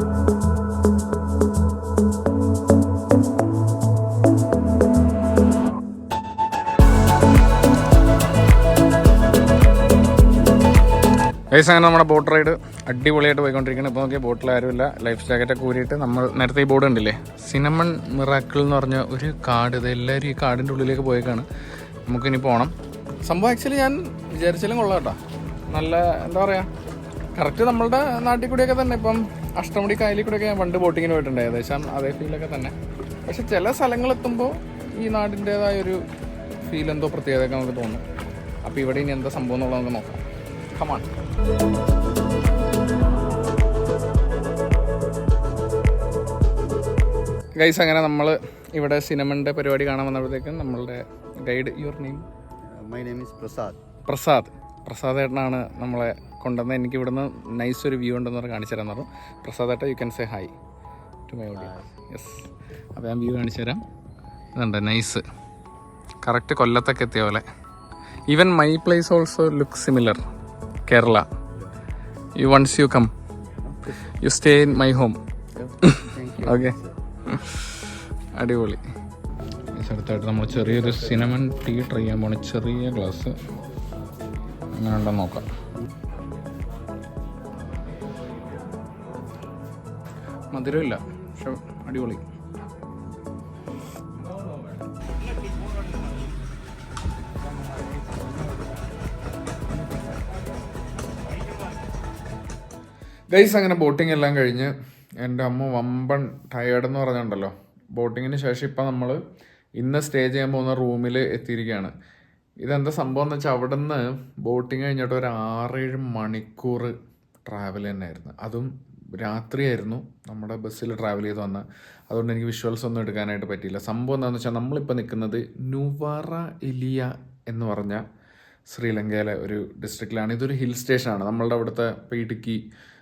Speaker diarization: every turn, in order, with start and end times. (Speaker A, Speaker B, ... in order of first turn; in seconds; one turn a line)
Speaker A: 11.5-21.5
Speaker A: 22.1-22.7
Speaker A: 23.2-26.7
Speaker A: 27.3-32.7
Speaker A: 33.2-36.0
Speaker A: 36.6-38.0
Speaker A: 38.6-41.1
Speaker A: 47.5-52.3
Speaker B: 52.7-53.8
Speaker A: 54.1-60.5
Speaker A: 61.3-63.8
Speaker A: 64.5-65.2
Speaker A: 66.2-67.5
Speaker A: 68.3-70.2
Speaker A: 70.8-71.3
Speaker A: 72.3-73.1
Speaker B: 73.6-74.0
Speaker A: 74.2-75.2
Speaker B: 75.6-76.9
Speaker A: 75.8-78.8
Speaker A: 79.7-83.3
Speaker A: 84.7-85.5
Speaker A: 90.5-92.2
Speaker A: 103.3-109.2
Speaker A: 109.8-111.9
Speaker A: 112.6-128.0
Speaker A: 128.7-132.6